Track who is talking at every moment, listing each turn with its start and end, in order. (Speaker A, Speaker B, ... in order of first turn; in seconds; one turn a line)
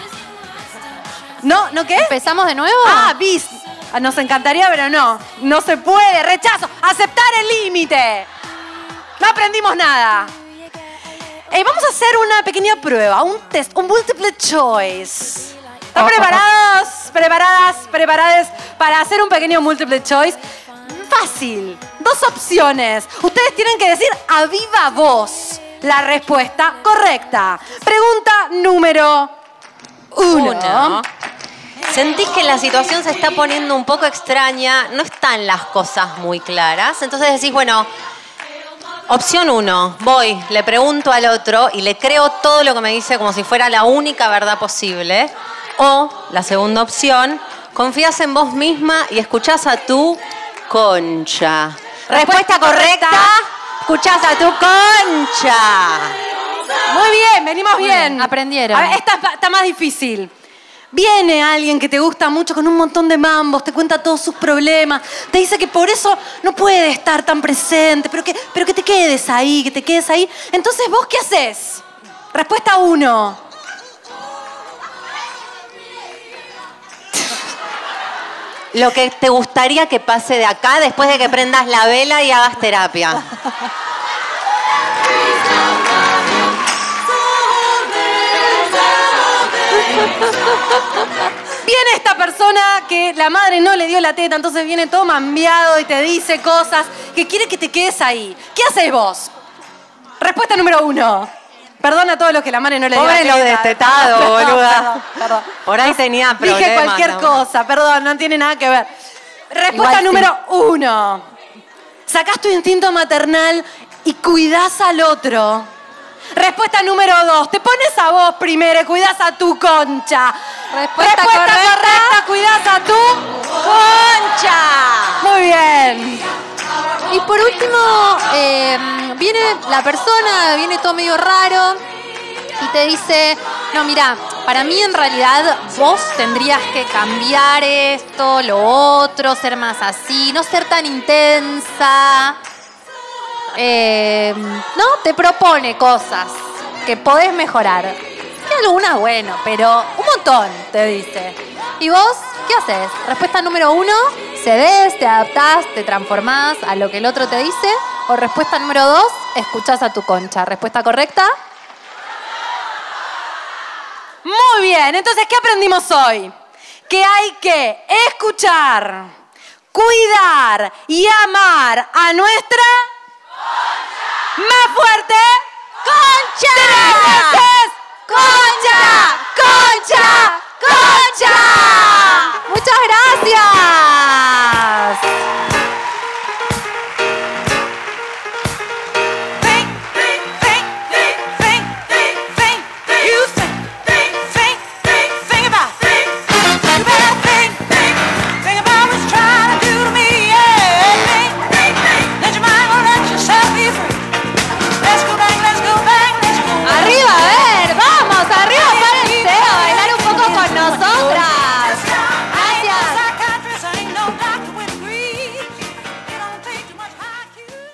Speaker A: 1.4-2.1
Speaker B: 1.9-3.1
Speaker A: 2.8-8.3
Speaker A: 9.2-10.3
Speaker A: 11.5-29.3
Speaker A: 30.1-31.0
Speaker C: 30.3-31.1
Speaker C: 31.8-37.9
Speaker C: 39.1-56.2
Speaker A: 52.1-53.4
Speaker A: 56.9-60.3
Speaker B: 57.8-59.0
Speaker A: 60.9-73.4
Speaker C: 78.7-83.3
Speaker A: 91.6-99.3
Speaker A: 100.2-101.3
Speaker A: 101.8-108.9
Speaker C: 102.9-107.4
Speaker A: 109.5-111.3
Speaker B: 109.7-110.2
Speaker A: 112.1-115.7
Speaker A: 116.3-120.4
Speaker B: 120.7-122.2
Speaker A: 121.0-123.5
Speaker C: 123.6-125.3
Speaker A: 125.2-126.2
Speaker B: 127.1-131.8
Speaker B: 132.6-142.4
Speaker B: 143.5-161.3
Speaker A: 164.2-166.3
Speaker A: 166.9-169.1
Speaker A: 169.7-172.9
Speaker A: 174.4-175.4
Speaker B: 175.9-177.5
Speaker C: 176.5-177.2
Speaker A: 176.5-182.2
Speaker B: 178.1-185.0
Speaker C: 181.6-182.1
Speaker C: 199.0-201.1
Speaker C: 202.2-203.1
Speaker B: 206.6-213.1
Speaker A: 209.5-211.0
Speaker C: 210.8-211.5
Speaker A: 213.6-214.3
Speaker C: 214.4-215.2